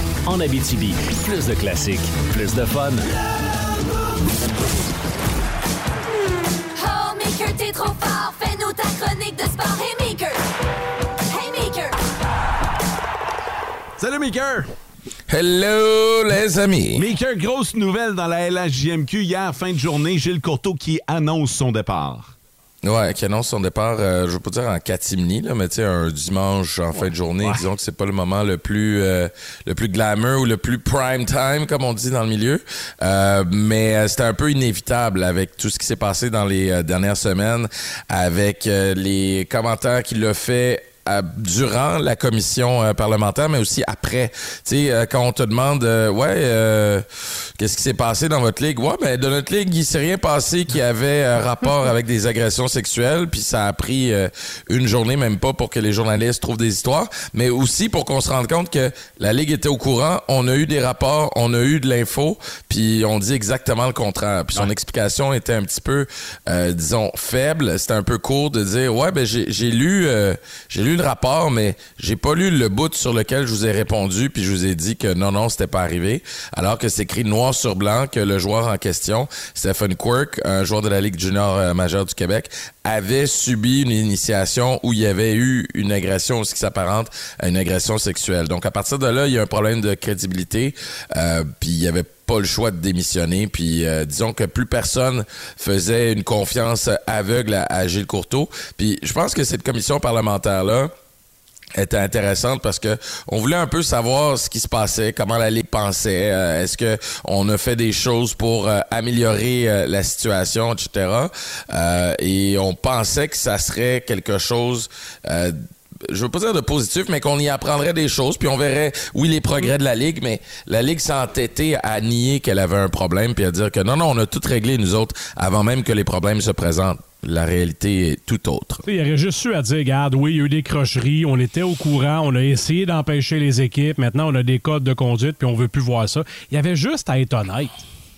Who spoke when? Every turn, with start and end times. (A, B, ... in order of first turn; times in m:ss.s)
0:00.3-0:03.0 A
0:06.8-0:10.4 B
0:11.3-0:12.0 B
0:14.0-0:14.7 C
0:15.3-0:17.0 D
0:17.0-0:22.3 C
0:22.8-0:47.0 D
0:47.6-1:40.9 D
1:41.8-1:55.6 D
1:56.1-2:08.8 D
2:08.8-2:17.8 E